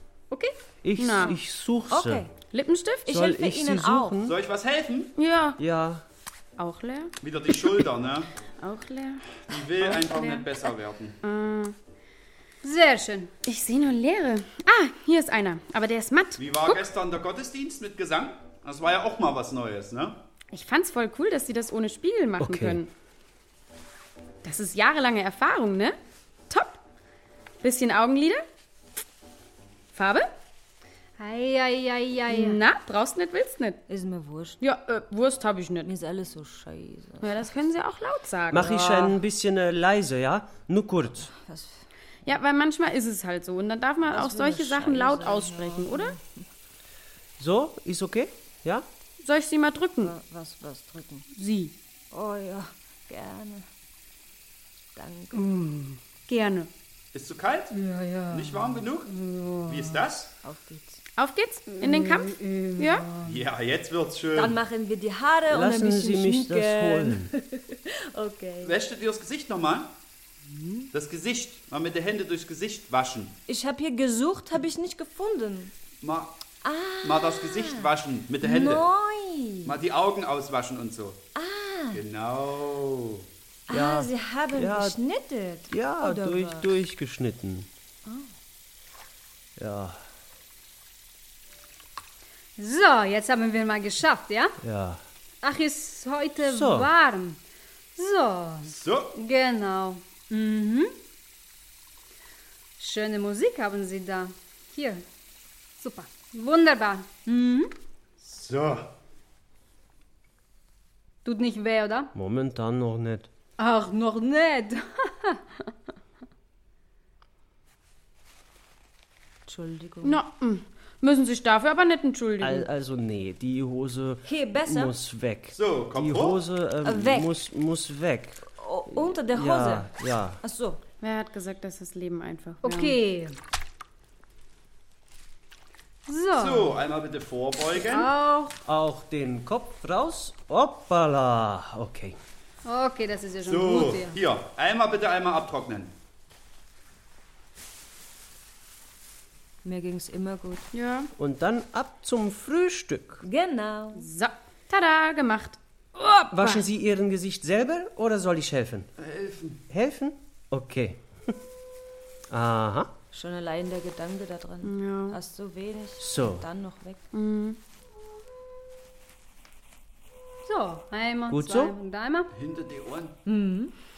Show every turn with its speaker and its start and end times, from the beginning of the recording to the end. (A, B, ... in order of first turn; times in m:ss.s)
0:00.3-0:01.4 A
0:00.8-0:02.3 B
0:01.9-0:02.3 C
0:02.5-0:03.1 A
0:03.1-0:04.2 C
0:03.1-0:04.4 B
0:04.2-0:05.1 D
0:05.2-0:05.6 A
0:05.6-0:06.0 B
0:06.6-0:07.1 A
0:07.2-0:08.3 D
0:08.6-0:10.5 A
0:09.5-0:11.2 D
0:11.2-0:11.8 A
0:12.6-0:13.3 E
0:13.5-0:16.8 A
0:16.4-0:20.2 D
0:20.5-0:22.9 A
0:22.4-0:22.8 B
0:24.4-0:26.0 A
0:26.5-0:26.8 A
0:27.6-0:28.4 A
0:29.9-0:30.3 A
0:31.2-0:32.6 E
0:32.3-0:33.8 A
0:33.9-0:34.6 C
0:34.6-0:35.9 A
0:35.9-0:37.5 C
0:37.2-0:38.7 A
0:38.5-0:41.3 B
0:38.6-0:39.2 C
0:41.3-0:41.8 C
0:42.3-0:46.2 A
0:44.0-0:46.4 C
0:47.4-0:48.9 B
0:49.2-0:50.1 A
0:50.0-0:51.2 C
0:51.4-0:51.7 A
0:52.1-0:53.7 C
0:55.0-0:55.5 C
0:55.3-0:56.0 E
0:56.3-0:56.7 A
0:57.1-0:57.7 D
0:57.7-1:00.1 E
0:58.3-0:59.1 D
0:59.7-1:00.3 D
1:00.4-1:01.0 C
1:01.2-1:03.1 A
1:01.7-1:03.4 E
1:03.2-1:04.6 D
1:04.3-1:08.8 C
1:05.5-1:07.3 B
1:08.6-1:09.9 D
1:10.9-1:13.4 D
1:13.5-1:15.7 C
1:16.0-1:16.4 D
1:16.6-1:19.8 C
1:17.0-1:18.8 D
1:19.6-1:21.2 D
1:21.4-1:22.0 C
1:21.9-1:23.2 D
1:23.7-1:26.7 C
1:23.7-1:25.0 B
1:25.7-1:27.7 B
1:29.6-1:30.0 B
1:32.6-1:34.6 E
1:34.6-1:35.0 B
1:35.4-1:37.4 E
1:36.4-1:36.9 B
1:38.0-1:40.9 E
1:38.7-1:39.1 D
1:42.8-1:45.0 E
1:45.8-1:47.7 E
1:48.2-1:48.9 D
1:51.2-1:52.1 E
1:52.1-1:53.3 B
1:53.6-1:55.4 E
1:59.5-2:00.2 C
2:00.0-2:02.7 A
2:02.4-2:10.4 B
2:04.2-2:05.0 C
2:05.5-2:06.4 D
2:06.8-2:07.4 C
2:08.4-2:10.8 C
2:11.0-2:13.0 A
2:12.6-2:13.4 E
2:16.1-2:16.8 E
2:16.4-2:18.1 D
2:17.8-2:18.6 E
2:18.7-2:22.2 B
2:22.6-2:24.2 E
2:23.4-2:25.9 D
2:29.6-2:30.7 C
2:30.7-2:31.1 A
2:31.2-2:33.2 B
2:33.2-2:34.1 C
2:34.0-2:36.6 A
2:36.3-2:38.9 B
2:39.0-2:39.6 D
2:39.7-2:41.3 B
2:42.3-2:42.9 B
2:43.1-2:47.0 C
2:44.6-2:45.2 A
2:46.0-2:46.5 B
2:47.1-2:47.6 A
2:50.4-2:52.3 E
2:51.3-2:51.7 B
2:52.3-2:53.2 D
2:53.3-2:53.7 C